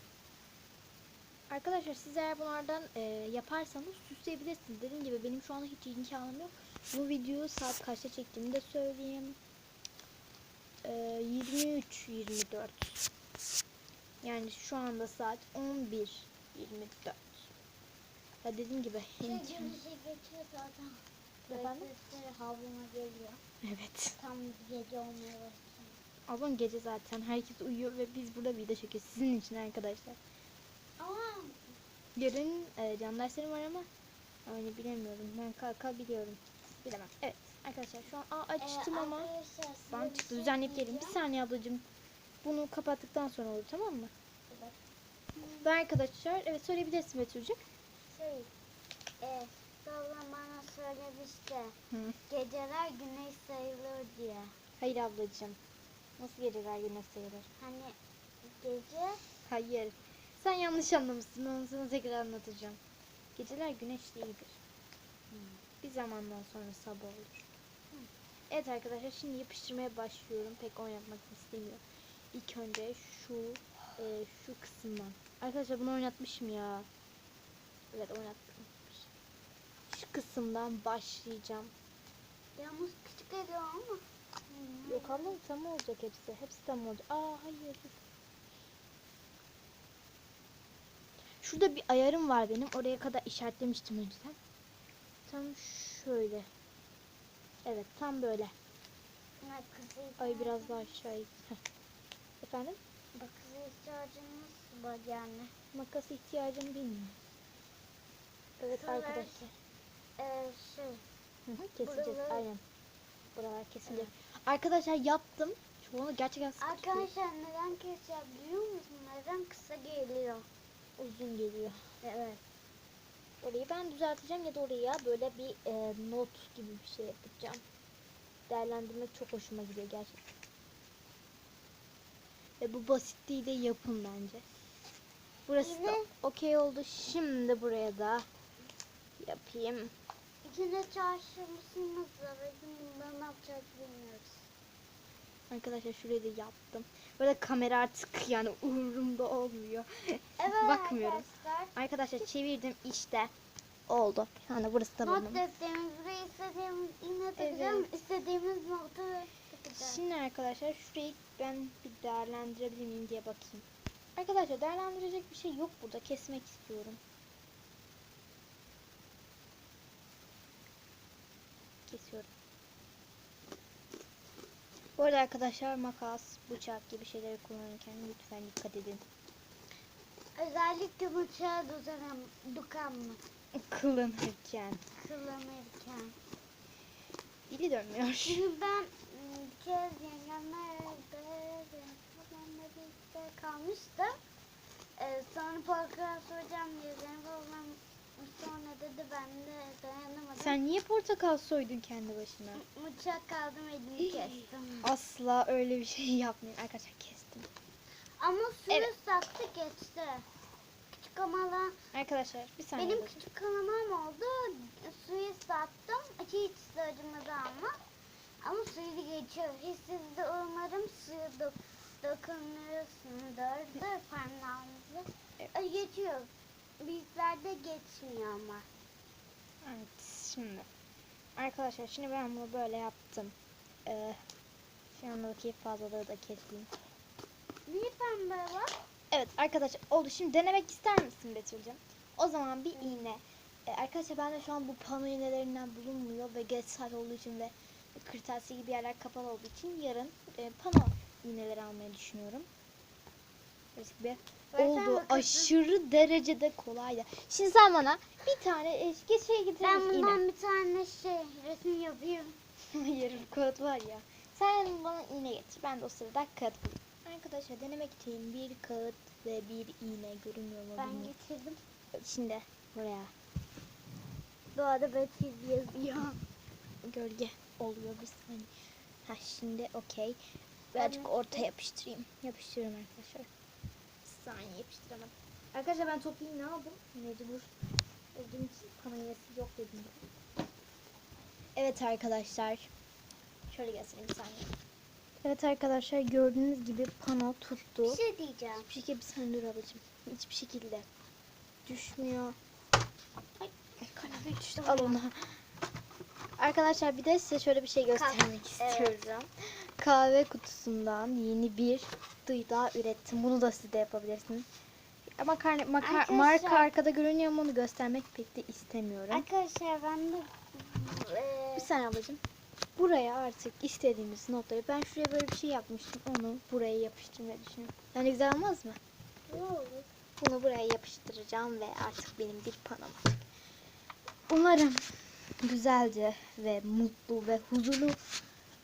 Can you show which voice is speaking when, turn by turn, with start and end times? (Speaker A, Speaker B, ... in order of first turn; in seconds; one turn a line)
Speaker A: 1.5-9.4
Speaker A: 10.8-13.0
Speaker A: 14.2-17.5
Speaker A: 18.4-19.8
Speaker B: 19.2-23.4
Speaker A: 21.5-21.9
Speaker A: 23.6-24.2
Speaker B: 24.2-26.0
Speaker A: 26.3-30.2
Speaker B: 31.0-31.6
Speaker A: 32.2-33.9
Speaker A: 34.5-39.3
Speaker B: 38.6-41.2
Speaker A: 39.9-41.9
Speaker A: 42.4-44.1
Speaker B: 45.4-45.7
Speaker A: 45.6-47.6
Speaker B: 48.1-48.5
Speaker B: 49.2-51.8
Speaker A: 51.9-52.2
Speaker B: 52.3-54.5
Speaker A: 54.8-55.6
Speaker A: 56.2-57.5
Speaker B: 57.6-59.2
Speaker A: 59.5-62.8
Speaker A: 63.4-64.6
Speaker B: 65.3-65.6
Speaker A: 65.8-67.5
Speaker A: 68.5-76.9
Speaker A: 77.9-79.1
Speaker A: 79.9-81.7
Speaker B: 82.6-85.4
Speaker A: 84.9-88.0
Speaker A: 91.4-94.4
Speaker A: 95.3-96.5
Speaker A: 97.7-98.5
Speaker B: 99.4-101.0
Speaker A: 100.2-101.6
Speaker A: 102.4-102.8
Speaker B: 103.1-105.5
Speaker A: 105.7-107.2
Speaker A: 108.6-109.5
Speaker B: 108.7-109.4
Speaker B: 110.2-111.0
Speaker A: 111.5-112.6
Speaker B: 111.8-112.5
Speaker A: 113.3-117.1
Speaker B: 116.6-120.5
Speaker A: 121.0-121.8
Speaker B: 122.0-122.4
Speaker A: 123.4-127.6
Speaker A: 128.5-130.2
Speaker A: 132.6-134.4
Speaker A: 135.5-138.3
Speaker B: 135.6-136.1
Speaker A: 139.2-139.9
Speaker B: 140.4-144.5
Speaker A: 145.5-153.3
Speaker B: 150.4-151.7
Speaker A: 153.9-155.4
Speaker B: 155.0-160.0
Speaker A: 157.4-157.9
Speaker A: 159.8-167.0
Speaker A: 171.9-172.3
Speaker A: 175.0-179.1
Speaker B: 180.4-183.2
Speaker A: 183.6-184.8
Speaker B: 185.0-186.2
Speaker A: 187.5-188.5
Speaker B: 188.2-194.2
Speaker B: 195.0-200.6
Speaker A: 200.4-202.6
Speaker B: 202.6-204.9
Speaker A: 204.8-207.5
Speaker B: 208.2-210.3
Speaker B: 210.9-211.8
Speaker A: 211.9-213.2
Speaker B: 212.8-217.8
Speaker B: 218.4-228.7
Speaker A: 229.6-230.7
Speaker A: 231.4-233.3
Speaker A: 233.9-234.2
Speaker A: 234.9-236.7
Speaker B: 237.7-238.7
Speaker A: 239.1-252.5
Speaker A: 253.8-260.2
Speaker B: 254.5-255.5
Speaker B: 259.6-262.4
Speaker A: 262.7-271.1
Speaker B: 270.8-271.6
Speaker A: 271.9-273.1
Speaker B: 274.5-276.2
Speaker A: 276.8-278.5
Speaker A: 279.1-280.2
Speaker A: 280.7-283.3
Speaker B: 280.8-281.5
Speaker A: 284.0-287.6
Speaker A: 288.1-290.0
Speaker A: 291.6-292.7
Speaker A: 293.5-294.5
Speaker A: 295.2-298.0
Speaker B: 297.9-298.7
Speaker A: 298.7-300.9
Speaker A: 301.7-302.4
Speaker B: 303.4-305.0
Speaker A: 303.8-305.3
Speaker A: 306.4-314.5
Speaker B: 307.9-309.1
Speaker A: 315.2-319.2
Speaker B: 315.8-316.7
Speaker B: 319.1-321.7
Speaker A: 321.6-322.2
Speaker A: 322.8-328.8
Speaker B: 329.3-329.9
Speaker A: 330.2-333.2
Speaker A: 334.3-338.0